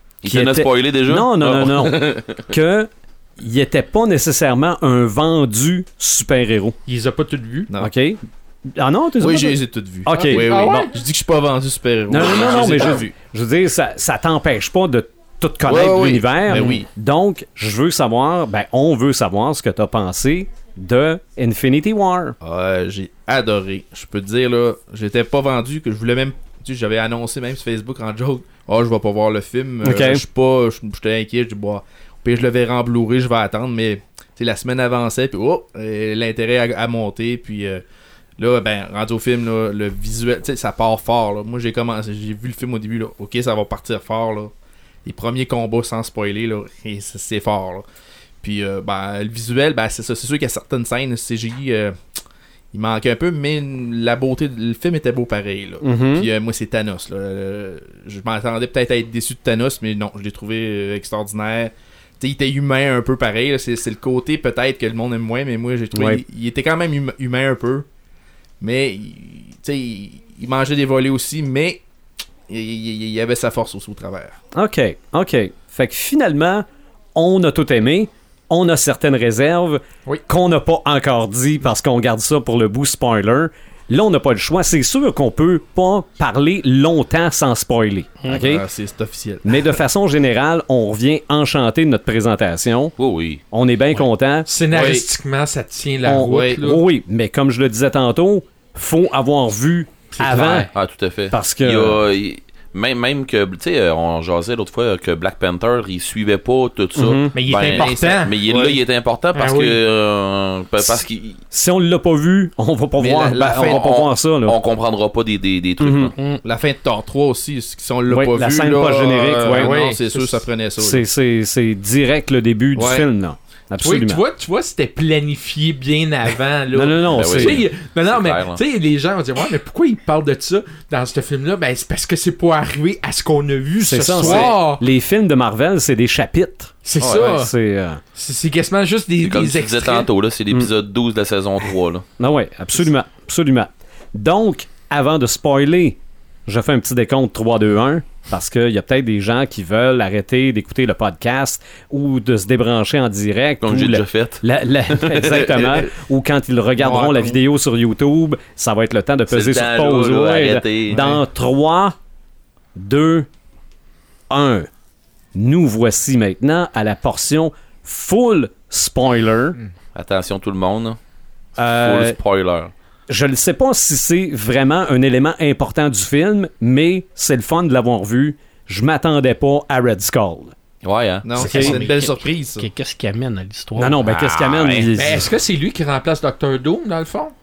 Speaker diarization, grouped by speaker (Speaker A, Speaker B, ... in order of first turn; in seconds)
Speaker A: 0.2-2.4, 93.0-93.4, 100.7-111.4, 113.5-116.1, 127.1-128.6, 134.2-134.5, 137.0-137.2, 139.2-142.0, 153.6-155.8, 159.3-161.0, 169.9-171.0, 171.7-172.7, 180.8-181.3, 184.0-184.9
Speaker B: 0.2-6.8, 7.8-10.9, 12.1-22.3, 29.8-30.2, 55.8-56.3, 65.9-66.2, 74.5-88.6, 89.4-92.9, 93.5-94.5, 96.0-100.7, 101.3-102.0, 107.0-107.3, 111.5-114.6, 115.8-116.1, 118.1-119.8, 120.8-124.2, 126.7-127.7, 133.8-138.0, 142.2-161.9, 162.7-163.3, 164.3-164.7, 165.3-169.6, 171.6-172.2, 173.1-180.5, 181.4-181.8, 183.8-185.3
Speaker C: 6.8-7.7, 10.1-10.9, 94.5-96.8, 100.1-100.7, 107.3-108.3, 109.3-109.8, 119.5-120.4, 123.8-134.8, 136.8-137.5, 138.1-140.1, 184.9-187.3
Speaker D: 9.2-13.1, 15.7-16.9, 22.4-37.8, 38.4-44.5, 45.0-47.8, 48.4-52.0, 52.7-67.8, 68.6-71.8, 72.5-74.4, 88.3-89.6, 94.7-95.0, 96.2-96.6, 107.5-108.8, 113.0-113.9, 116.4-121.0, 122.7-123.1, 156.8-157.4, 160.9-161.2, 181.2-182.7
Speaker E: 116.2-116.4, 181.4-184.0